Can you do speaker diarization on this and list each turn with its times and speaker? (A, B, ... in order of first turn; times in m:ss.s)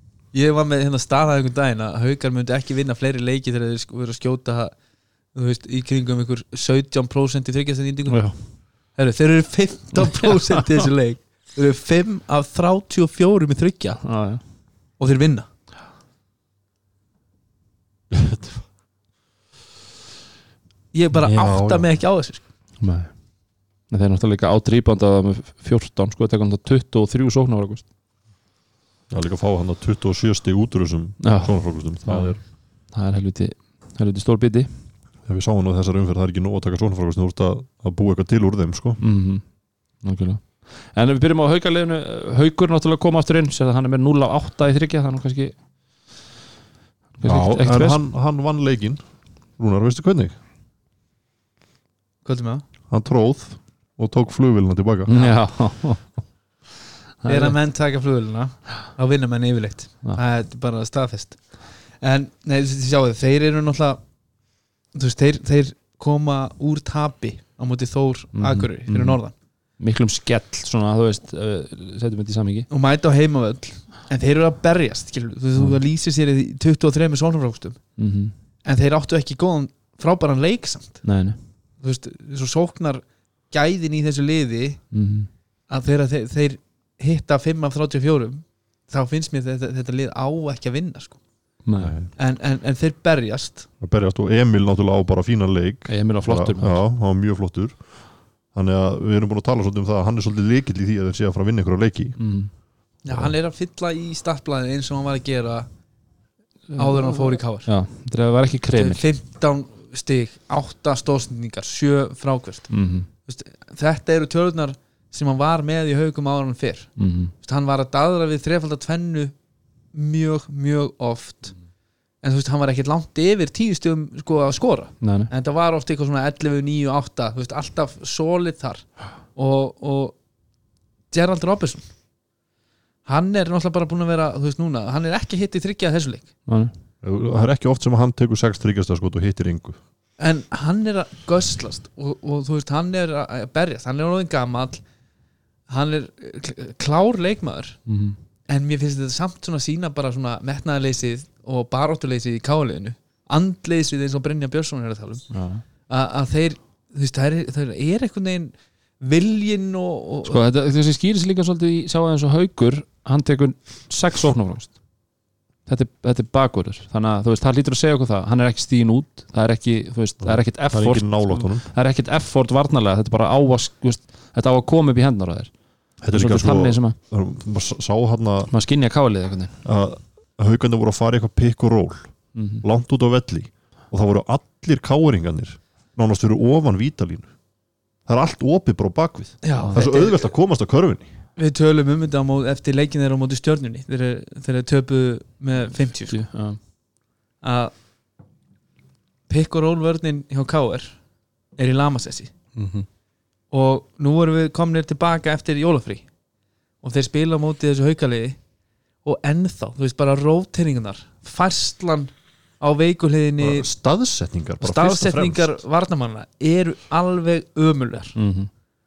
0:00.3-0:04.8 A
0:05.3-0:14.2 A
0:08.1-0:08.4 B
0:10.0-0:10.3 B
0:14.0-0:14.4 B
0:15.0-0:15.5 A
0:18.1-0:18.7 C
0:20.9-0:22.4 A
0:21.3-0:21.9 C
0:22.8-0:23.3 B
0:23.8-0:27.9 B
0:29.1-0:32.4 C
0:31.2-0:34.7 B
0:35.2-0:39.0 C
0:39.0-0:39.4 B
0:40.0-0:46.1 B
0:47.2-0:48.0 B
0:47.2-0:49.0 C
0:49.6-0:50.3 C
0:52.2-0:52.6 A
0:52.9-0:55.1 C
0:55.1-0:56.3 B
0:55.1-0:55.4 A
0:57.2-0:57.6 B
0:57.3-1:04.0 A
1:05.0-1:09.3 A
1:08.4-1:09.2 B
1:09.8-1:12.7 B
1:12.7-1:17.8 A
1:18.0-1:18.3 B
1:18.6-1:21.1 A
1:21.0-1:21.4 B
1:21.8-1:24.9 A
1:24.9-1:25.3 B
1:25.7-1:31.2 A
1:31.6-1:31.9 B
1:31.8-1:32.1 C
1:32.2-1:33.7 A
1:33.8-1:42.2 C
1:35.9-1:36.8 B
1:42.2-1:42.5 B
1:43.0-1:45.7 A
1:46.7-1:49.0 B
1:46.8-1:47.7 A
1:48.7-1:52.7 A
1:52.7-1:53.1 B
1:53.2-1:59.3 A
1:57.0-1:57.3 B
1:59.9-2:01.6 A
2:02.2-2:10.2 A
2:05.0-2:05.3 B
2:11.1-2:11.9 A
2:13.0-2:16.3 A
2:16.5-2:16.7 B
2:17.0-2:19.8 C
2:20.2-2:24.8 A
2:25.7-2:27.8 A
2:27.9-2:28.2 B
2:28.5-2:35.3 A
2:35.3-2:35.6 B
2:35.9-2:40.4 A
2:40.2-2:44.8 B
2:45.7-2:57.0 B
2:50.2-2:51.7 C
2:56.0-2:58.5 C
2:58.5-2:59.6 B
2:59.6-3:07.3 C
3:02.3-3:02.6 B
3:08.1-3:11.1 C
3:09.4-3:10.3 A
3:11.4-3:16.3 A
3:16.1-3:16.6 B
3:17.4-3:17.7 A
3:19.3-3:21.0 A
3:21.6-3:22.3 A
3:22.6-3:22.9 B
3:23.5-3:26.1 A
3:26.8-3:28.4 A
3:29.0-3:33.7 A
3:33.4-3:35.6 C
3:34.6-3:38.2 A
3:38.2-3:38.5 B